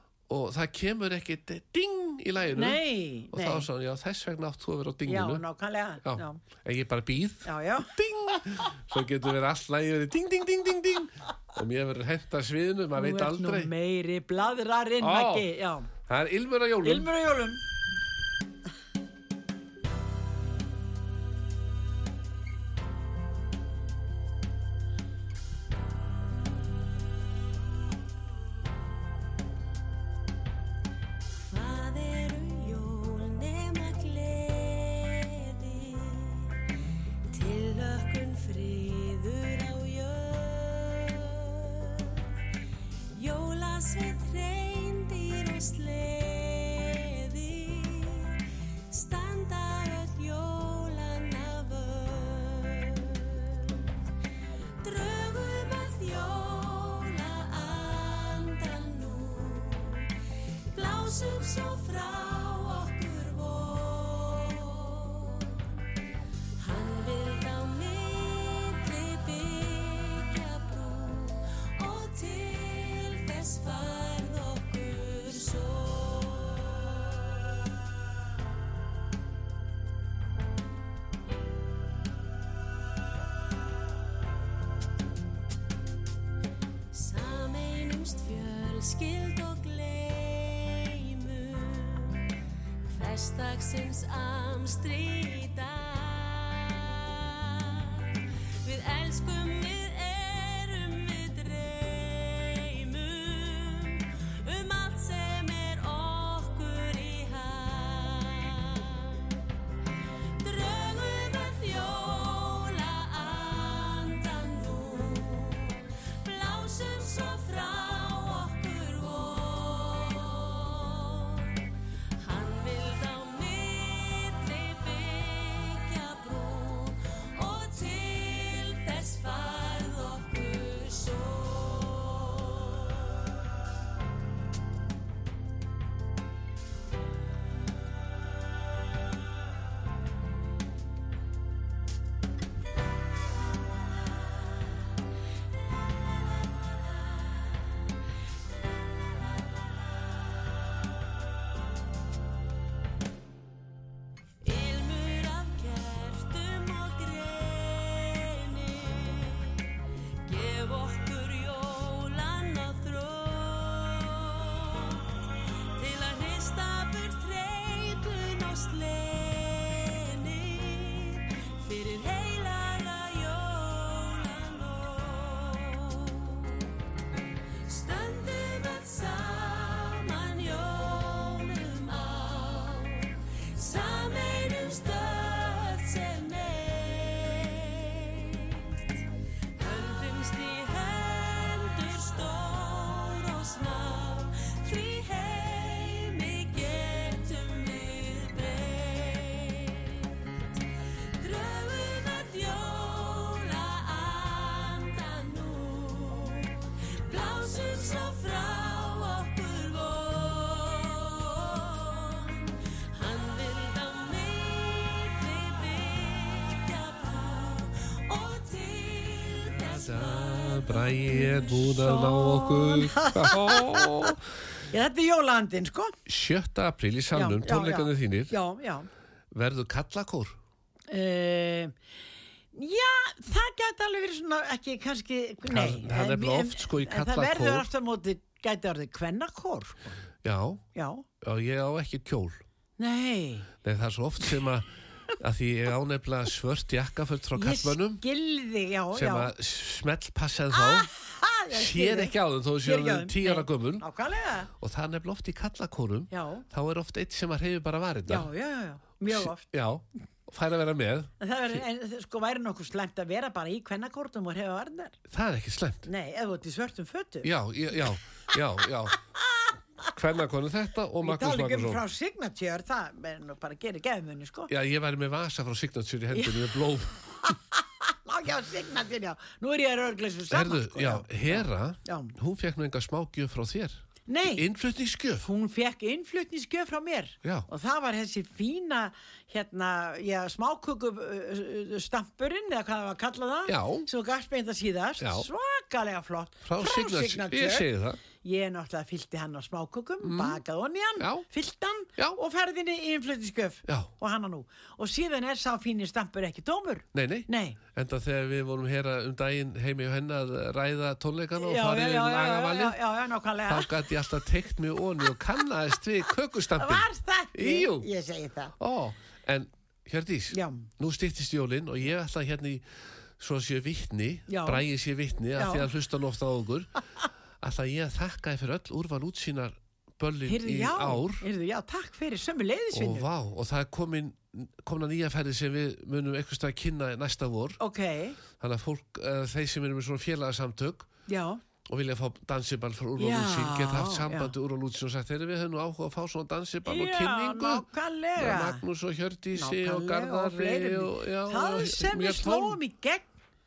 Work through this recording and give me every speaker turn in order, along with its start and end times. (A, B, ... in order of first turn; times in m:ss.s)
0:00.3-0:05.4 A
0:02.5-0:03.7 B
0:05.0-0:06.4 B
0:06.0-0:13.7 A
0:07.4-0:08.0 B
0:12.9-0:15.9 B
0:15.0-0:17.1 A
0:16.8-0:17.6 B
0:31.4-0:36.4 C
0:37.3-0:42.1 C
0:43.1-0:48.3 C
0:48.9-0:53.7 C
0:54.8-1:00.0 C
1:00.7-1:05.6 C
1:06.6-1:16.9 C
1:26.9-1:32.2 C
1:32.9-1:37.9 C
1:38.6-1:49.2 C
1:50.4-2:01.5 C
2:02.2-2:12.8 C
2:34.4-2:39.4 C
2:40.2-2:45.0 C
2:45.8-2:56.5 C
2:57.6-3:08.6 C
3:09.6-3:20.1 C
3:21.2-3:40.8 C
3:39.5-3:44.2 A
3:41.2-3:44.2 B
3:44.7-3:46.0 B
3:46.0-3:48.3 A
3:47.1-3:48.9 B
3:49.3-3:50.4 A
3:50.9-3:51.7 B
3:52.5-4:00.0 B
3:55.4-3:57.7 A
4:00.2-4:00.6 A
4:00.7-4:01.0 B
4:01.2-4:02.4 A
4:02.8-4:03.5 B
4:03.6-4:04.7 A
4:05.2-4:08.0 A
4:07.3-4:09.3 B
4:08.9-4:10.9 A
4:10.5-4:14.5 B
4:11.5-4:13.8 A
4:14.6-4:18.3 A
4:16.1-4:16.4 B
4:18.1-4:19.5 B
4:19.0-4:21.6 A
4:21.2-4:24.9 B
4:25.1-4:25.9 A
4:25.8-4:27.3 B
4:27.2-4:28.9 A
4:28.9-4:29.9 B
4:29.9-4:31.8 A
4:31.0-4:34.5 B
4:34.5-4:37.0 A
4:36.1-4:36.6 B
4:37.3-4:42.1 B
4:40.3-4:45.3 A
4:44.1-4:44.4 B
4:45.2-5:07.6 B
4:53.4-4:53.9 A
4:55.0-4:55.3 A
4:56.4-4:58.0 A
5:00.0-5:00.4 A
5:01.0-5:01.2 A
5:03.6-5:03.9 A
5:06.9-5:12.8 A
5:11.4-5:14.0 B
5:13.4-5:17.9 A
5:16.6-5:18.5 B
5:18.6-5:22.6 A
5:20.3-5:20.7 B
5:23.2-5:26.7 A
5:24.3-5:24.6 B
5:25.3-5:25.7 B
5:27.4-5:31.2 A
5:30.2-5:33.0 B
5:32.7-5:37.6 A
5:37.6-5:38.2 B
5:38.4-5:40.9 A
5:41.1-5:41.4 B
5:41.7-5:52.6 A
5:43.0-5:44.3 B
5:46.6-5:48.6 B
5:49.3-5:53.1 B